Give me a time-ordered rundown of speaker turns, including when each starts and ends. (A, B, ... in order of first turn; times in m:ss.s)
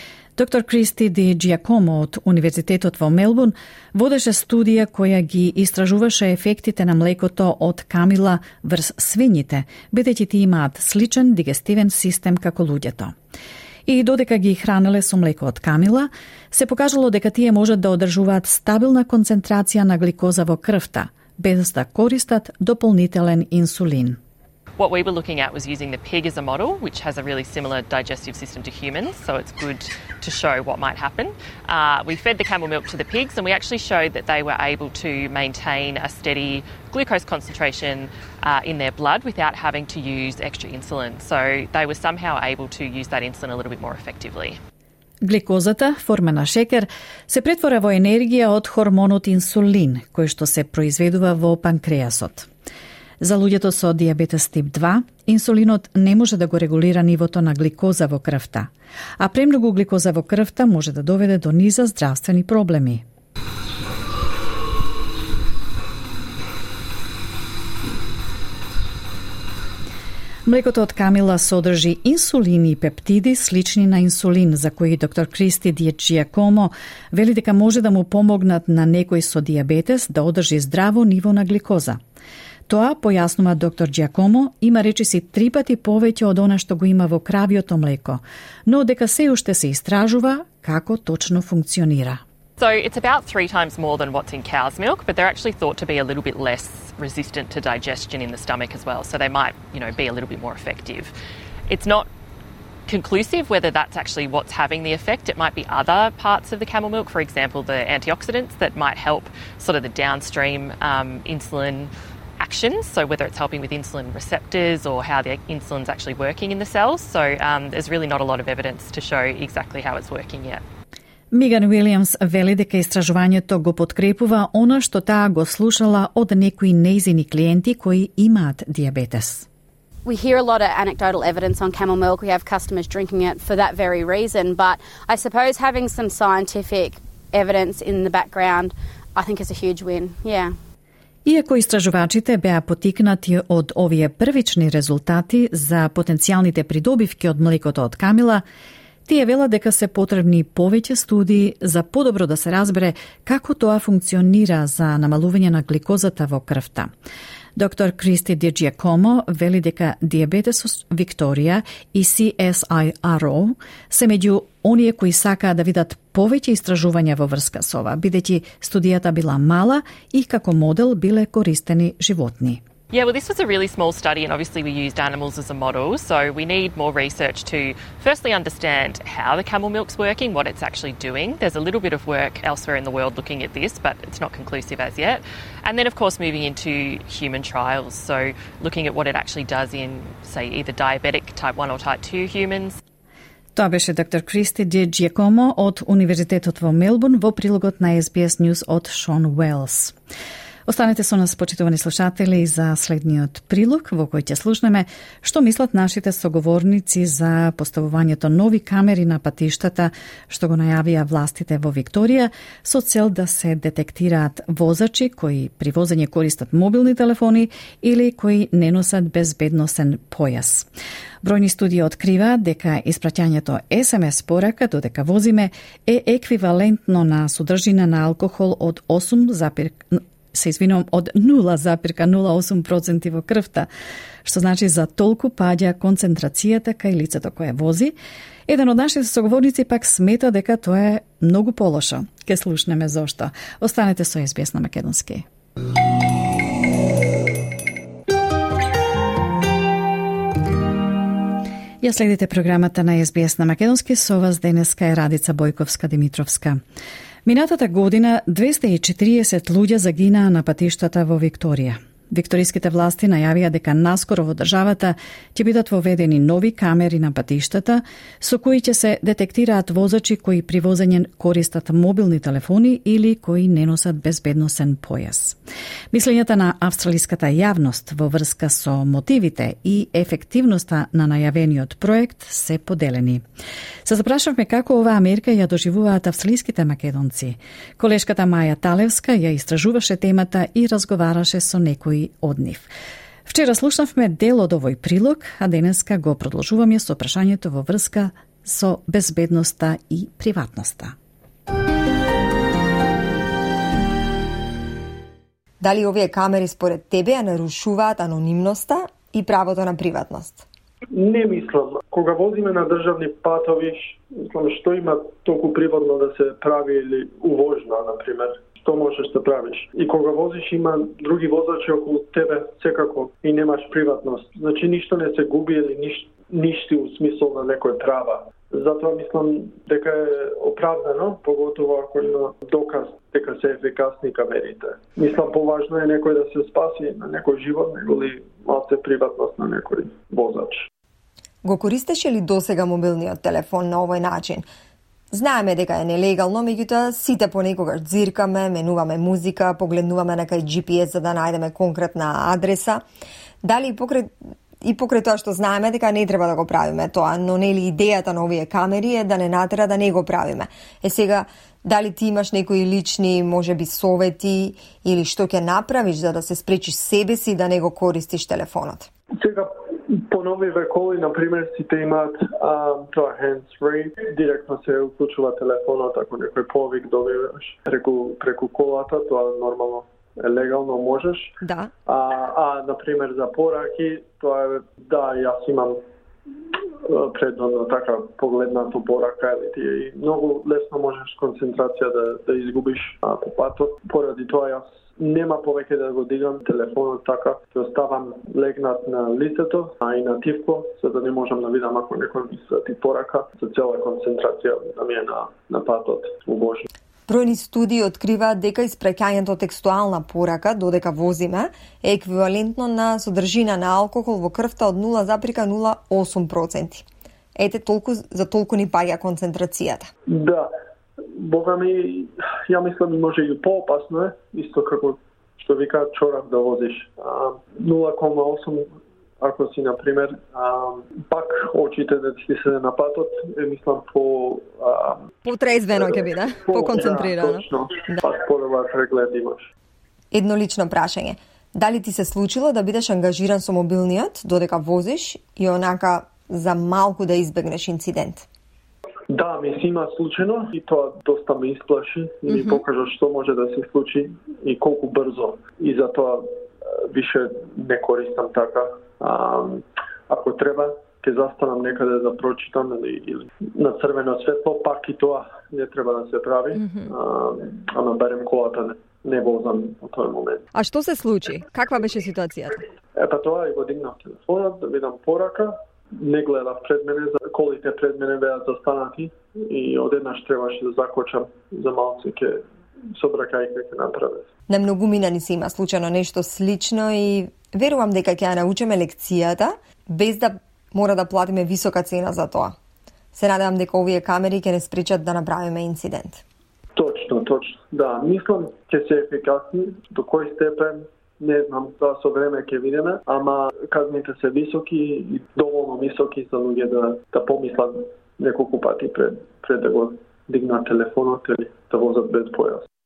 0:00.4-0:13.1 A
0:13.8-0:24.2 A
0:24.8-0:44.6 B
0:45.2-0:52.5 A
0:53.2-1:03.0 A
1:10.4-1:22.0 A
1:22.7-1:32.2 A
1:32.6-1:41.1 B
1:41.7-1:42.1 B
1:42.9-2:00.6 B
2:01.3-2:09.5 A
2:10.0-2:20.6 C
2:21.2-2:28.4 A
2:29.0-2:36.9 A
2:37.6-2:52.6 A
2:52.9-3:12.8 B
3:13.5-3:19.9 A
3:20.7-3:40.7 A
3:41.2-3:53.7 A
3:54.2-3:57.9 A
3:58.5-4:05.2 A
4:11.8-4:16.6 A
4:17.2-4:35.4 A
4:35.9-4:43.2 A
4:43.8-4:52.7 A
4:53.2-5:00.9 A
5:05.6-5:10.4 D
5:10.9-5:40.6 E
5:41.4-5:44.5 D
5:45.1-5:52.8 D
5:53.4-6:08.9 D
6:09.2-6:21.3 E
6:21.4-6:21.7 D
6:21.9-6:25.8 E
6:26.9-6:46.6 E
6:47.1-6:56.8 D
6:57.4-6:59.9 D
7:00.1-7:00.5 E
7:01.2-7:08.6 E
7:09.2-7:15.0 E
7:15.2-7:18.0 D
7:15.7-7:19.5 E
7:20.1-7:28.2 D
7:29.1-7:36.2 E
7:32.3-7:32.6 D
7:36.9-7:50.4 E
7:46.5-7:46.9 D
7:50.5-7:52.6 D
7:53.0-8:02.4 E
8:03.0-8:04.2 E
8:04.5-8:12.5 D
8:13.1-8:16.2 D
8:16.8-8:32.6 E